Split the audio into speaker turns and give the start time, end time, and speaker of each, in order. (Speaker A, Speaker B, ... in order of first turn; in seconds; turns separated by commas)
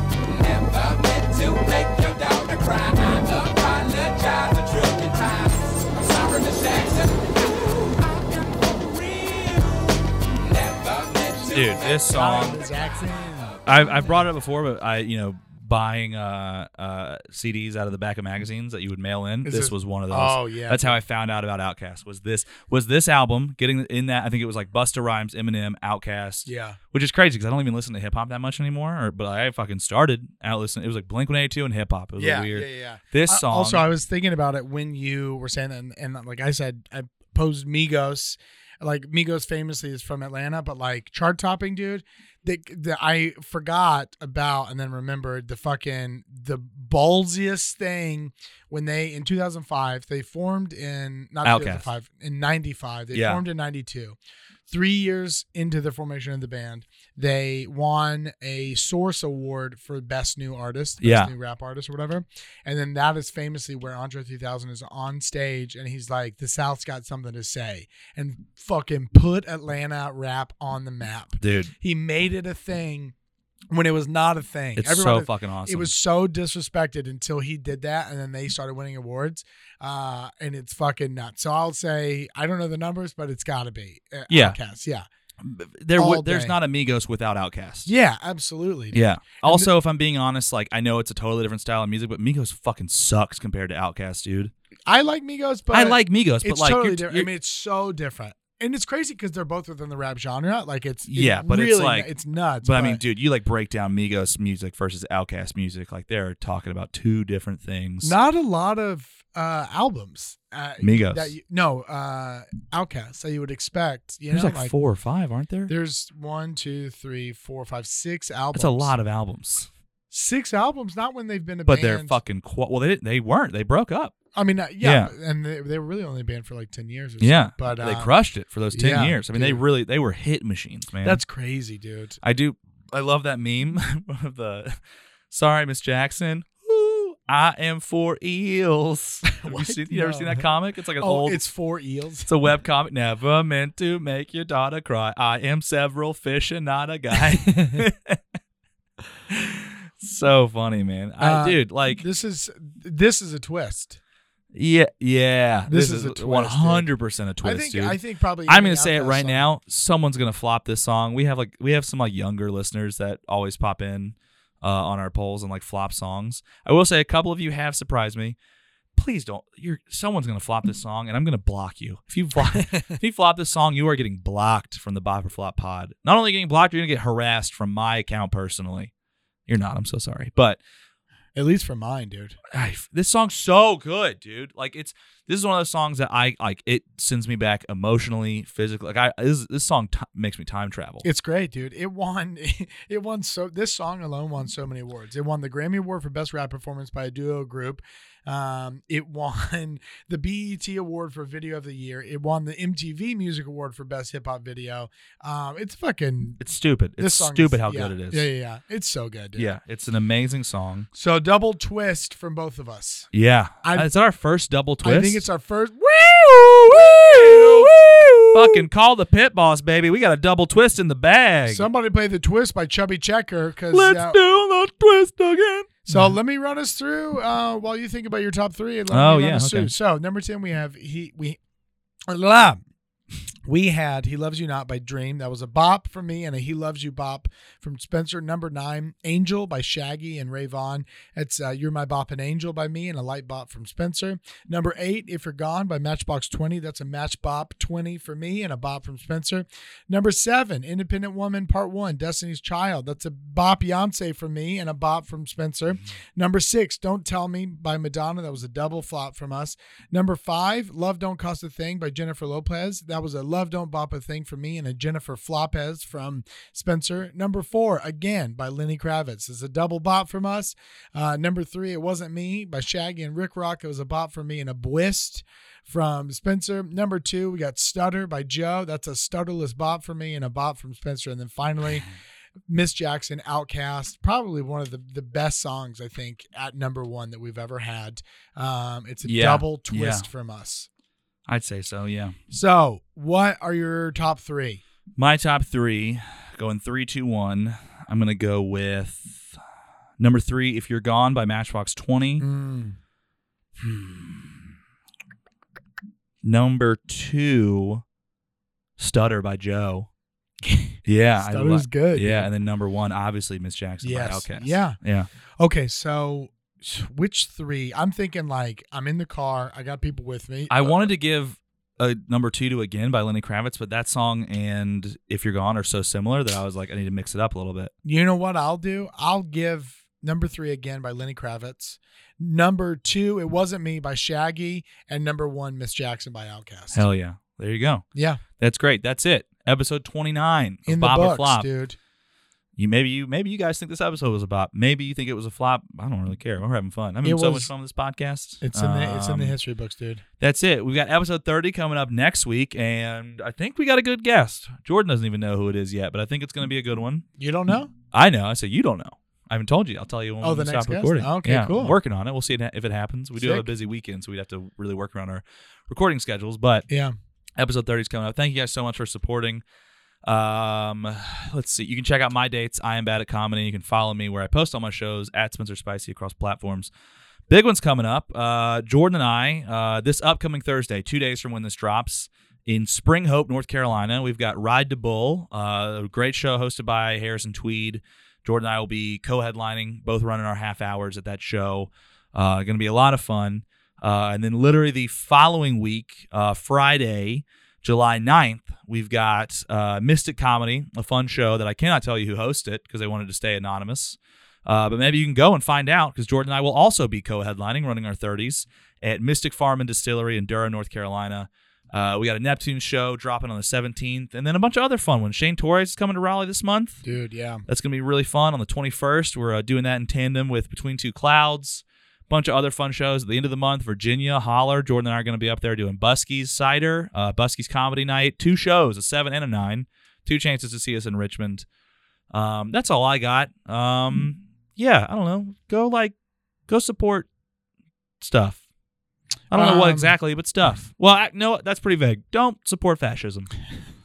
Speaker A: 0.3-7.7, Speaker A: 8.9-9.8, Speaker A: 10.4-12.0, Speaker B: 11.5-12.6, Speaker C: 12.1-13.6, Speaker B: 13.7-33.8, Speaker C: 19.4-21.0, Speaker C: 26.4-26.8, Speaker C: 32.2-54.2, Speaker B: 51.4-51.9, Speaker B: 53.1-53.4, Speaker C: 54.7-73.1, Speaker B: 61.0-61.3, Speaker B: 71.4-71.7, Speaker C: 73.7-85.0, Speaker B: 74.8-75.9, Speaker B: 84.3-84.6, Speaker B: 85.4-87.9, Speaker C: 86.0-86.5, Speaker C: 87.8-89.7, Speaker B: 88.9-94.5, Speaker C: 94.9-103.0, Speaker B: 95.7-97.3, Speaker B: 101.1-102.1, Speaker B: 102.6-108.1, Speaker C: 108.0-114.7, Speaker B: 110.8-111.3, Speaker B: 114.3-115.7, Speaker C: 115.7-118.9, Speaker B: 118.5-119.7, Speaker C: 120.1-122.2, Speaker B: 121.7-124.2, Speaker C: 124.3-128.1, Speaker B: 124.8-125.1, Speaker B: 127.2-131.2, Speaker C: 128.7-129.6, Speaker C: 131.0-132.2, Speaker B: 132.2-141.4, Speaker C: 139.2-140.5, Speaker C: 141.0-142.3, Speaker B: 142.2-148.2, Speaker C: 147.4-147.8, Speaker B: 149.3-152.0, Speaker C: 151.2-154.0, Speaker B: 154.5-168.3, Speaker C: 155.7-156.9, Speaker C: 157.4-159.4, Speaker B: 168.9-178.9, Speaker C: 172.6-172.9, Speaker B: 179.5-180.6, Speaker C: 181.3-182.4, Speaker B: 182.5-191.0, Speaker C: 191.0-206.4, Speaker B: 206.4-208.2, Speaker C: 207.0-209.5, Speaker B: 209.3-210.9, Speaker C: 210.9-213.1, Speaker B: 213.1-215.2, Speaker C: 213.6-213.9, Speaker C: 214.8-218.6, Speaker B: 216.7-217.7, Speaker B: 218.3-221.7, Speaker C: 221.5-224.2, Speaker B: 223.7-226.2, Speaker C: 225.9-231.4, Speaker B: 228.9-229.7, Speaker C: 232.1-232.6, Speaker C: 233.4-281.9, Speaker C: 282.5-290.7, Speaker B: 289.0-290.1, Speaker B: 291.3-292.1, Speaker C: 292.3-294.6, Speaker B: 295.0-299.4, Speaker B: 300.0-302.2, Speaker C: 302.2-302.8, Speaker B: 306.2-307.8, Speaker B: 308.8-309.9, Speaker C: 310.4-312.3, Speaker B: 310.8-315.1, Speaker C: 313.8-314.8, Speaker C: 315.4-320.9, Speaker B: 320.5-327.7, Speaker C: 327.8-336.9, Speaker B: 336.7-337.8, Speaker C: 337.9-338.2, Speaker B: 338.4-341.5, Speaker C: 340.7-341.8, Speaker B: 342.6-349.4, Speaker C: 347.0-347.5, Speaker C: 348.4-350.0, Speaker B: 350.2-357.0, Speaker C: 357.2-357.7, Speaker B: 357.9-366.6, Speaker C: 360.2-361.7, Speaker C: 363.2-363.5, Speaker C: 366.7-366.9, Speaker B: 367.4-369.4, Speaker B: 370.0-376.7, Speaker B: 377.3-416.8, Speaker C: 416.8-417.4, Speaker B: 417.5-431.4, Speaker B: 432.1-435.9, Speaker B: 436.5-437.1, Speaker B: 438.0-438.4, Speaker B: 439.3-443.3, Speaker C: 439.3-439.9